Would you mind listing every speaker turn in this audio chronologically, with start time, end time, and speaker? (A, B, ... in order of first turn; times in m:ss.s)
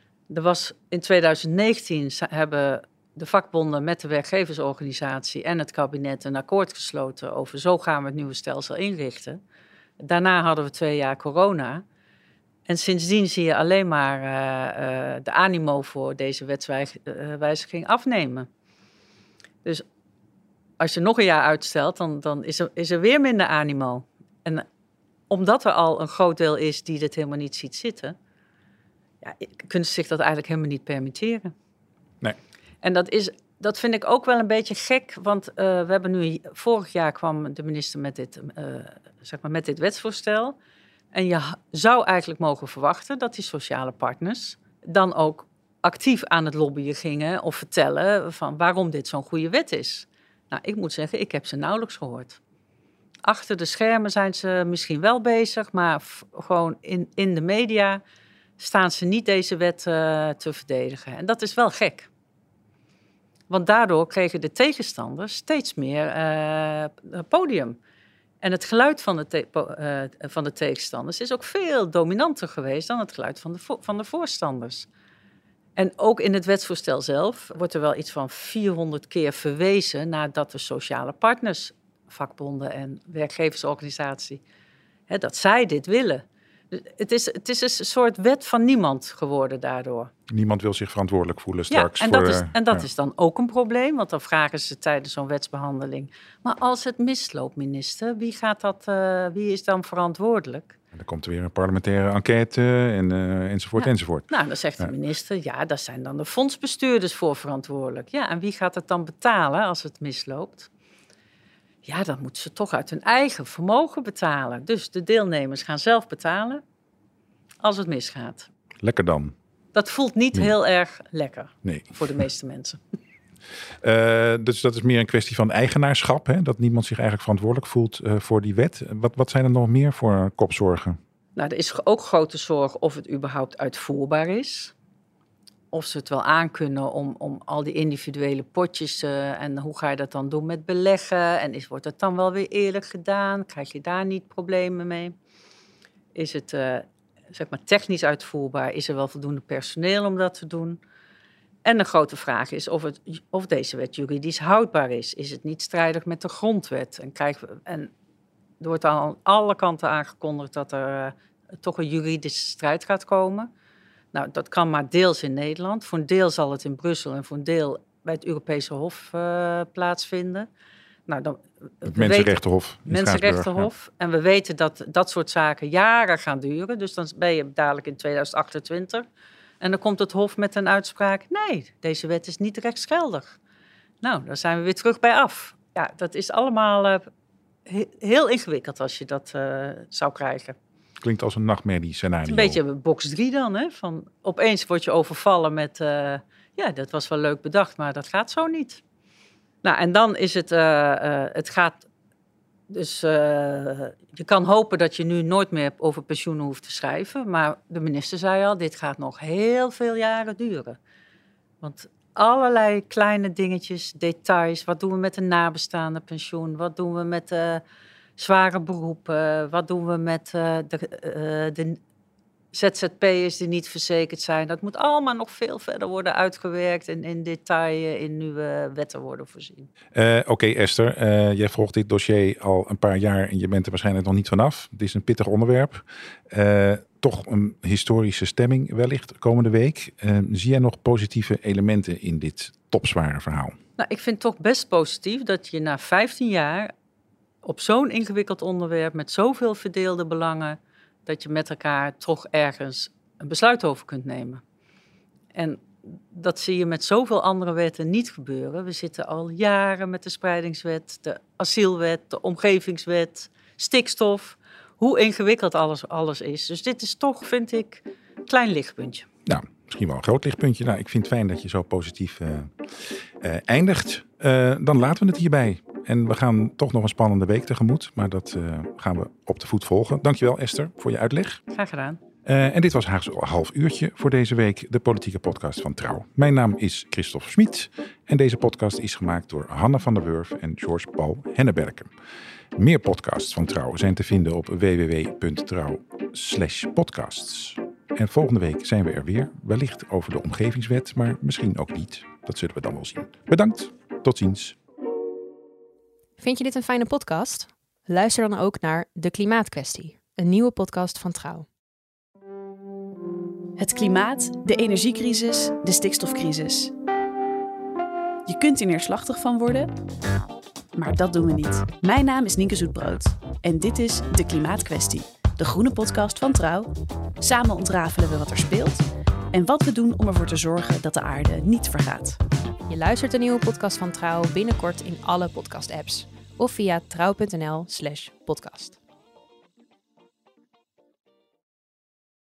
0:00.3-0:09.4 A
0:10.0-0:11.8 A
0:12.7-0:18.5 A
0:20.8-0:24.6 A
0:25.3-0:28.2 A
0:29.2-0:31.5 A
0:32.8-0:40.6 A
0:41.1-0:52.4 A
0:53.2-0:58.0 A
0:58.6-1:02.1 A
1:03.5-1:07.8 A
1:08.4-1:14.9 A
1:15.8-1:24.4 A
1:25.1-1:30.1 A
1:30.3-1:32.8 B
1:31.7-1:40.8 A
1:40.9-1:44.9 B
1:43.8-1:50.7 A
1:51.8-1:56.6 A
1:57.6-1:58.5 A
1:58.8-1:59.3 B
1:59.7-2:02.8 A
2:01.6-2:01.9 B
2:03.8-2:11.0 B
2:11.4-2:14.7 A
2:15.7-2:25.1 A
2:26.1-2:30.8 A
2:31.6-2:37.9 A
2:38.6-2:43.5 A
2:44.1-2:50.5 A
2:51.1-2:59.1 A
2:51.8-2:53.7 B
2:59.6-3:03.4 A
3:04.0-3:07.1 A
3:07.6-3:10.6 A
3:11.0-3:12.6 B
3:12.3-3:18.8 A
3:19.6-3:21.9 A
3:22.7-3:30.8 A
3:31.6-3:37.6 A
3:38.2-3:41.8 A
3:42.5-3:49.7 A
3:49.9-4:03.6 B
4:03.8-4:06.7 A
4:07.4-4:14.4 A
4:15.3-4:29.1 A
4:29.2-4:32.5 B
4:33.2-4:41.4 B
4:41.5-4:42.0 A
4:42.2-4:51.9 B
4:52.6-5:04.6 B
5:06.2-5:11.5 C
5:13.6-5:16.7 D
5:18.2-5:19.7 D
5:20.7-5:32.2 D
5:32.7-5:38.8 C